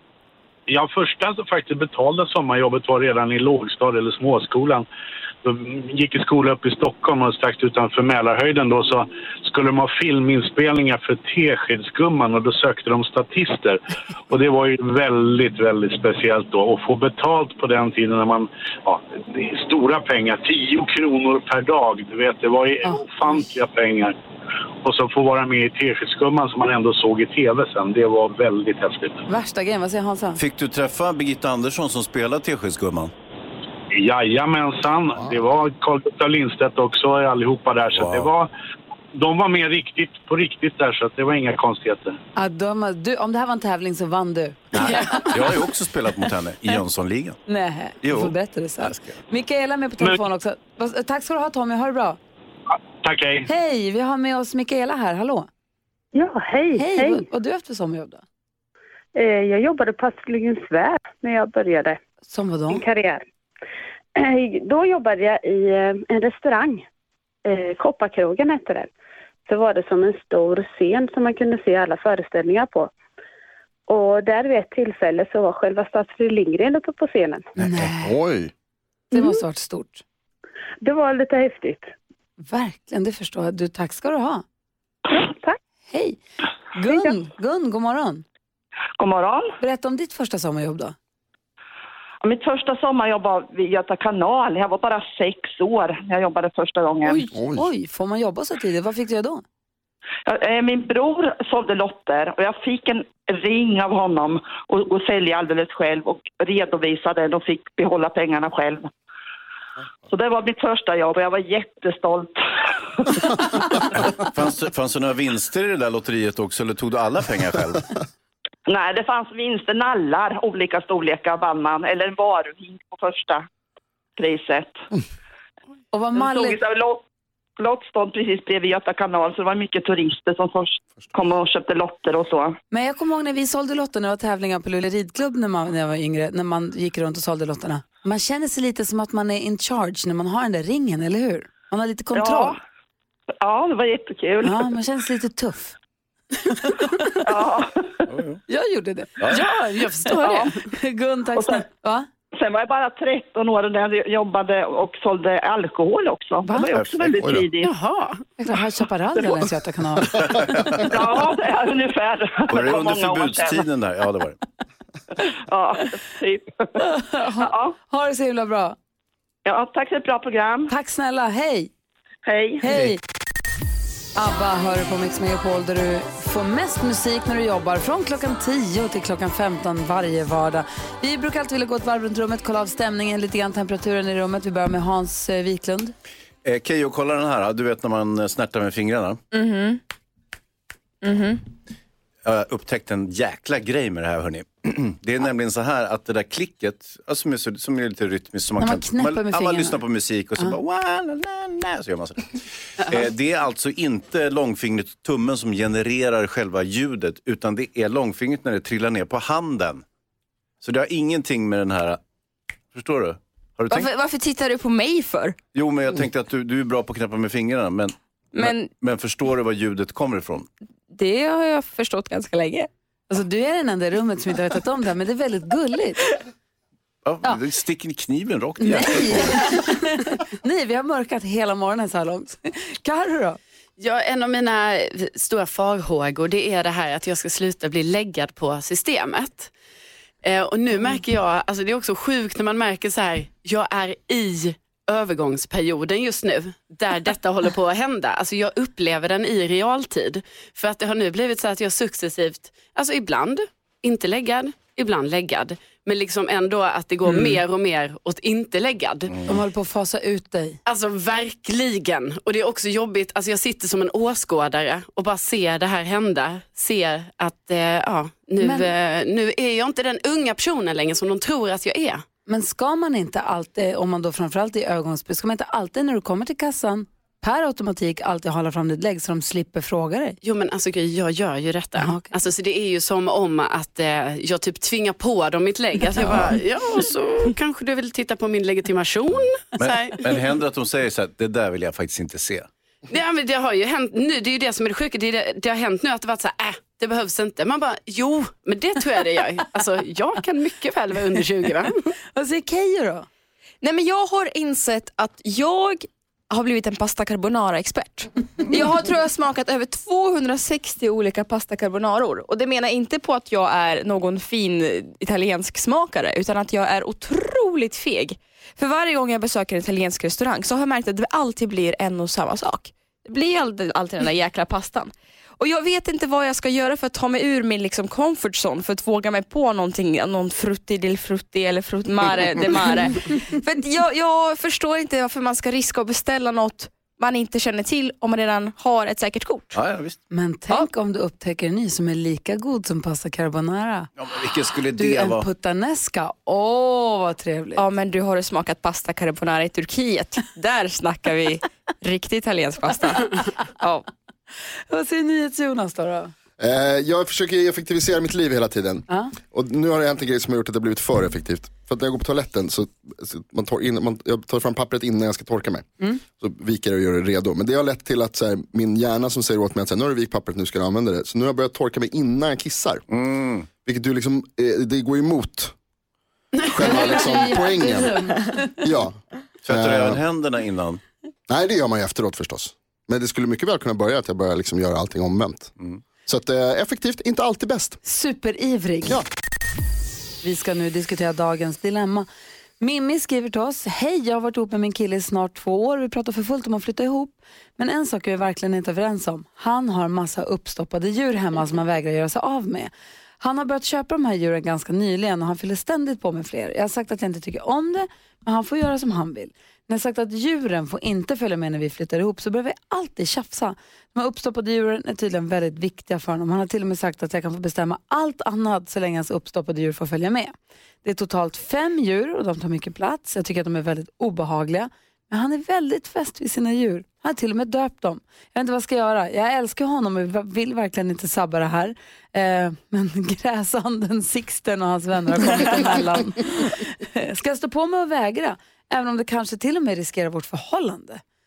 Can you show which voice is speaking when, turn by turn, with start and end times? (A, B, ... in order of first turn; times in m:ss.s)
0:00.7-0:04.8 A
0:05.4-0:24.1 A
0:24.8-0:29.2 A
0:29.3-0:30.4 B
0:30.4-0:33.1 C
0:33.9-0:38.5 A
0:37.9-0:38.3 C
0:39.1-0:42.2 A
0:42.4-0:45.5 B
0:44.7-0:47.4 C
0:47.5-0:52.2 B
0:48.0-0:49.1 C
0:53.0-0:53.5 A
0:53.4-0:55.5 B
0:56.1-0:57.2 D
0:56.8-0:58.2 B
0:59.1-1:02.0 D
1:02.3-1:02.8 B
1:02.7-1:03.2 D
1:04.2-1:06.8 D
1:07.4-1:08.9 D
1:09.4-1:12.9 D
1:13.9-1:17.5 D
1:17.6-1:18.2 B
1:17.6-1:18.5 E
1:19.1-1:20.0 B
1:19.1-1:19.4 D
1:20.8-1:21.9 D
1:22.4-1:24.4 B
1:25.1-1:25.6 D
1:25.9-1:26.2 B
1:26.7-1:28.2 B
1:29.0-1:29.6 F
1:29.6-1:30.9 B
1:32.2-1:37.2 F
1:37.0-1:39.4 B
1:37.3-1:37.6 E
1:40.2-1:48.9 F
1:50.1-1:52.4 F
1:53.9-1:57.9 C
1:58.7-2:03.4 F
2:04.2-2:04.8 F
2:05.9-2:06.6 B
2:06.1-2:07.0 F
2:07.6-2:12.6 F
2:12.7-2:22.6 B
2:22.1-2:22.6 F
2:23.4-2:24.6 F
2:24.4-2:25.8 B
2:26.6-2:27.1 B
2:27.2-2:28.0 F
2:28.1-2:28.4 C
2:28.5-2:32.1 B
2:29.8-2:30.5 G
2:31.4-2:31.6 F
2:32.3-2:37.7 F
2:36.4-2:36.7 B
2:36.7-2:37.4 C
2:37.6-2:38.2 G
2:38.4-2:40.3 B
2:40.4-2:40.8 C
2:40.7-2:43.6 F
2:42.5-2:44.4 C
2:45.5-2:46.7 F
2:46.8-2:48.8 B
2:47.4-2:47.7 F
2:49.4-2:50.7 F
2:50.7-2:51.7 B
2:52.2-2:52.6 F
2:52.6-2:53.0 B
2:54.2-3:05.9 B
3:06.4-3:09.2 C
3:09.3-3:09.8 H
3:11.0-3:11.4 H
3:12.2-3:29.8 C
3:18.6-3:19.8 B
3:30.6-3:32.0 C
3:32.7-3:33.9 C
3:33.7-3:35.4 H
3:35.5-3:40.5 C
3:38.3-3:38.7 H
3:40.9-3:42.7 H
3:43.1-3:46.1 B
3:47.0-3:49.6 C
3:48.6-3:53.4 B
3:53.8-3:59.5 G
4:00.2-4:19.1 G
4:19.2-4:20.6 B
4:20.6-4:32.0 G
4:28.4-4:28.7 B
4:32.3-4:40.2 B
4:40.2-4:50.1 G
4:41.8-4:42.1 B
4:46.0-4:46.3 C
4:49.6-4:52.5 C
4:52.9-5:01.8 G
5:02.1-5:03.1 B
5:03.6-5:39.6 H
5:39.5-5:40.0 C
5:40.1-5:43.9 B
5:44.0-5:45.3 C
5:44.7-5:47.6 B
5:47.6-5:53.8 H
5:54.7-5:56.1 B
5:56.4-6:12.8 E
6:12.9-6:13.5 C
6:13.6-6:15.5 E
6:16.5-6:19.0 E
6:16.6-6:18.6 B
6:19.4-6:20.8 C
6:19.5-6:20.0 E
6:21.3-6:25.5 E
6:26.0-6:27.8 E
6:27.8-6:29.0 B
6:30.2-6:32.1 B
6:32.6-7:21.0 B